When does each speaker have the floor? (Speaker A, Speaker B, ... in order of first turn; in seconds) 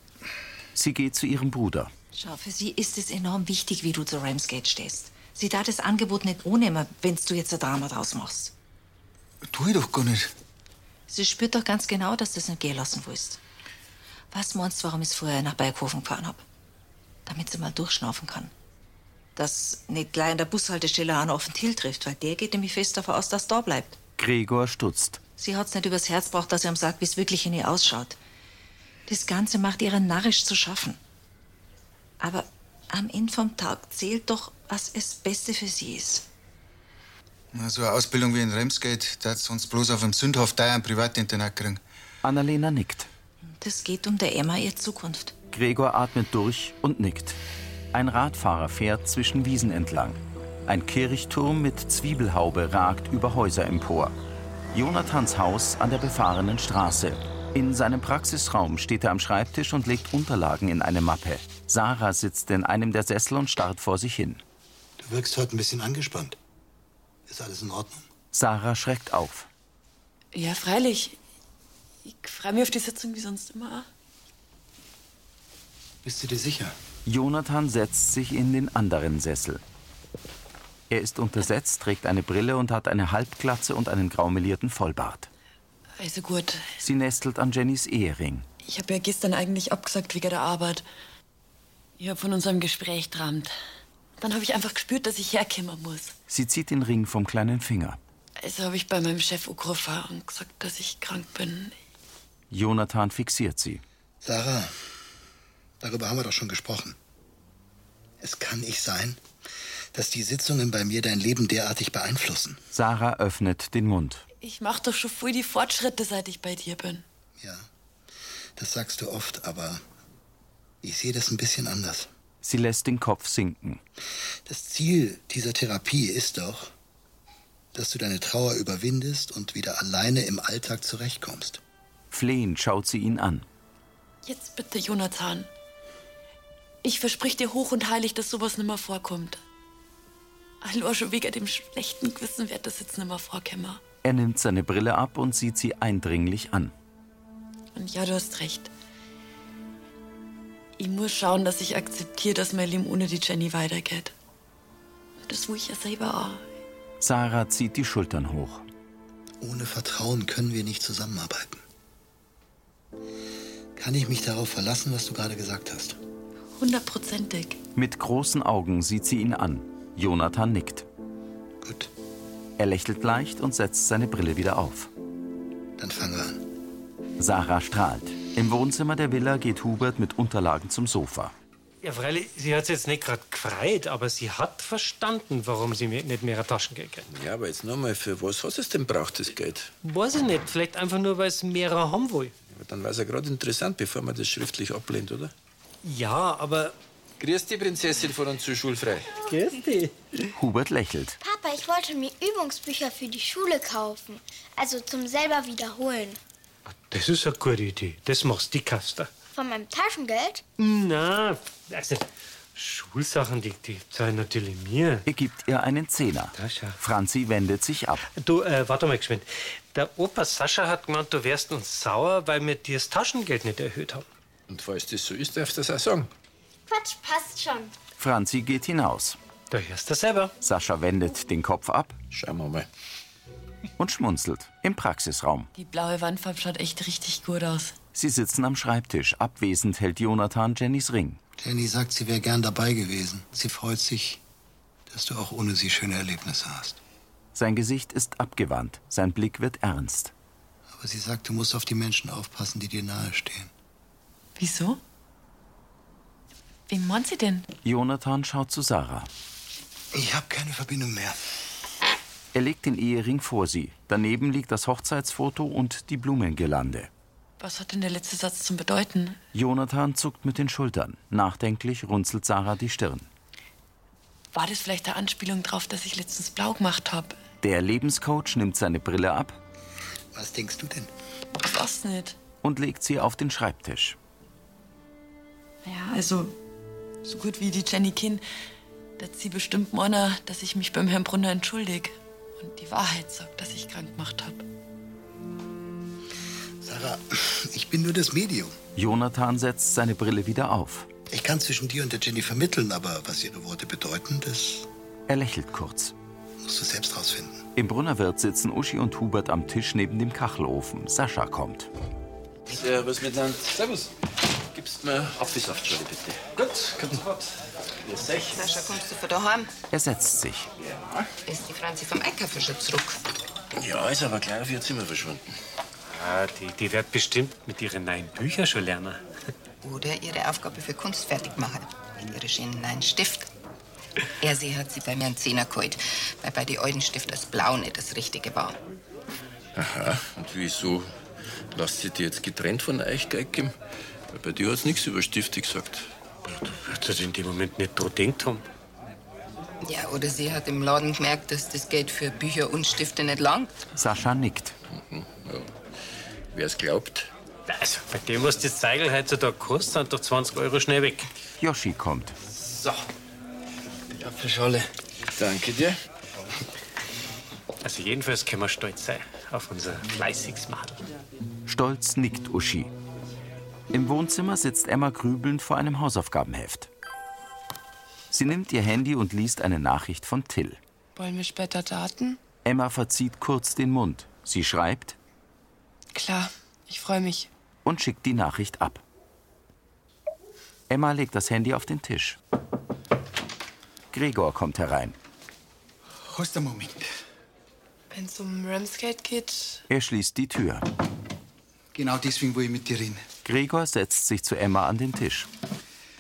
Speaker A: 0.8-1.9, 24.2-25.2, 42.2-43.1, 45.5-47.4, 47.9-54.1, 54.7-64.4, 68.3-69.5, 77.1-79.6, 80.9-85.3, 86.8-88.5, 96.3-98.0, 102.5-103.8, 112.7-114.2, 122.4-123.8, 132.1-133.5, 144.0-146.7, 157.0-158.7, 167.8-170.9, 172.6-174.9, 177.2-181.3, 200.3-201.2, 215.1-218.1, 228.0-229.2, 230.4-232.0, 233.8-235.5, 237.9-241.2, 247.3-250.1, 257.6-259.1, 262.3-266.9, 269.3-273.1, 277.4-279.4, 282.4-284.0, 298.8-300.9, 305.1-305.9, 307.6-311.7, 319.7-320.5, 353.8-354.6, 361.4-362.2, 371.5-372.7, 373.7-376.7, 378.1-380.6, 382.4-385.0, 387.6-388.8, 390.7-392.2, 393.9-395.0, 399.7-400.6, 403.2-405.3
Speaker B: 2.1-8.5, 11.1-13.4, 14.3-16.4, 17.3-18.5, 19.4-24.0, 25.4-28.2, 29.1-31.0, 32.2-36.2, 43.6-45.4
Speaker C: 9.5-10.3, 37.5-41.8, 396.0-396.9, 401.7-403.1
Speaker D: 65.0-66.4, 67.3-68.1, 76.0-76.8, 104.2-104.8, 105.8-107.0, 108.2-109.2, 109.9-112.6, 117.4-117.7, 118.6-119.8, 120.8-122.1, 124.5-126.7, 127.7-131.6, 159.4-161.6, 163.8-166.0, 171.6-171.9, 175.8-176.4, 241.4-244.2, 244.9-246.8, 250.7-253.5, 259.9-261.2, 280.1-280.9, 296.6-298.6, 301.1-304.7, 306.4-307.4
Speaker E: 70.3-71.2, 72.0-73.9, 86.0-86.8, 88.6-90.8, 92.0-93.5, 94.2-96.1, 98.4-101.8, 114.4-117.0, 134.2-135.5, 136.8-139.4, 140.6-143.8, 147.8-148.7, 150.8-154.1, 155.2-156.4, 166.6-167.6, 235.6-237.8, 254.4-254.8, 256.7-257.5, 267.4-269.2, 274.3-277.2, 281.4-282.2, 285.6-286.4, 287.0-288.2, 289.0-294.4
Speaker F: 181.8-187.1, 189.8-192.3, 195.8-196.8, 199.3-199.9, 206.9-209.1, 210.6-215.1, 216.4-216.8, 218.2-224.1, 229.5-230.3, 325.9-329.0, 346.4-348.4, 357.5-361.1, 367.6-370.8
Speaker G: 187.1-189.7, 192.5-195.3, 197.2-199.2, 224.5-226.1, 232.1-232.7, 312.5-313.9, 314.5-317.3, 317.8-318.4, 320.6-321.1, 323.6-325.2, 339.6-340.9, 341.5-343.5, 344.1-345.9, 354.9-355.5, 356.3-357.1, 362.3-362.8, 363.9-365.8
Speaker H: 201.2-206.2, 209.3-210.4, 226.7-227.7
Speaker I: 318.4-319.5, 321.3-323.0, 329.6-333.3, 334.2-338.6, 349.6-353.6
Speaker J: 381.0-382.2, 385.9-387.3, 397.9-399.6